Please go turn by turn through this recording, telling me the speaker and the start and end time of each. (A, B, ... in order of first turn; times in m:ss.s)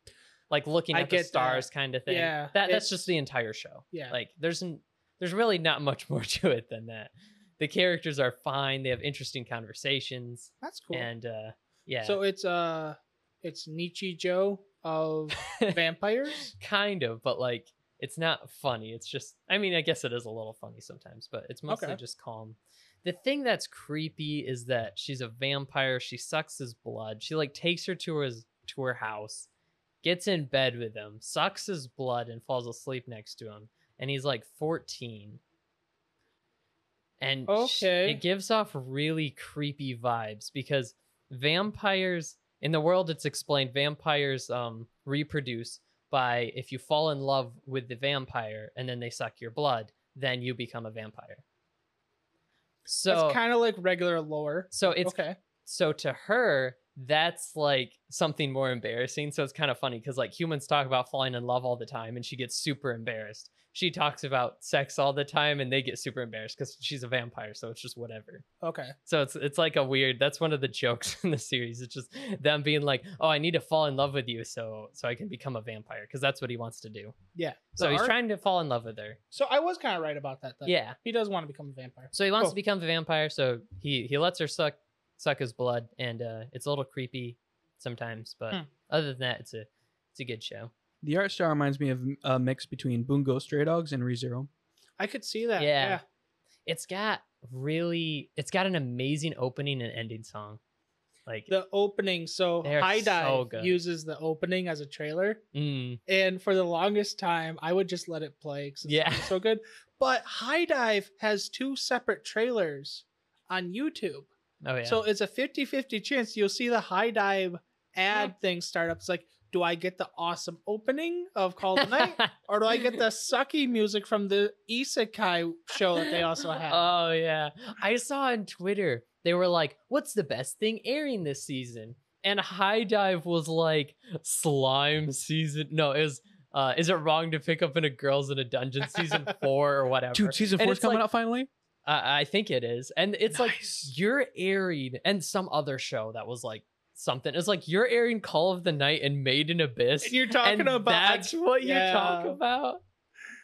0:00.5-0:12.2 A
0:00.9-0:03.1 B
0:10.6-0:11.1 B
0:12.0-0:16.5 B
0:15.4-0:15.8 A
0:16.5-0:29.5 A
0:21.7-0:22.0 B
0:30.0-0:35.4 A
0:37.2-0:51.4 A
0:37.5-0:38.2 B
0:52.9-0:53.4 A
0:53.1-0:55.4 B
0:54.7-1:08.4 A
1:08.6-1:09.0 B
1:09.1-1:17.2 A
1:17.4-1:18.1 B
1:17.8-1:19.2 A
1:19.3-1:22.6 B
1:20.6-1:21.0 A
1:22.1-1:30.7 A
1:31.0-1:34.5 C
1:35.0-1:36.0 B
1:35.6-1:36.0 A
1:36.7-1:40.6 A
1:41.5-1:45.4 B
1:42.6-1:43.8 A
1:45.5-1:46.0 A
1:46.1-1:54.3 B
1:48.8-1:49.4 A
1:54.6-1:55.0 A
1:54.8-2:06.8 B
2:01.8-2:03.0 A
2:06.6-2:21.0 A
2:20.1-2:21.5 C
2:21.8-2:32.8 A
2:23.3-2:23.9 B
2:30.0-2:32.4 B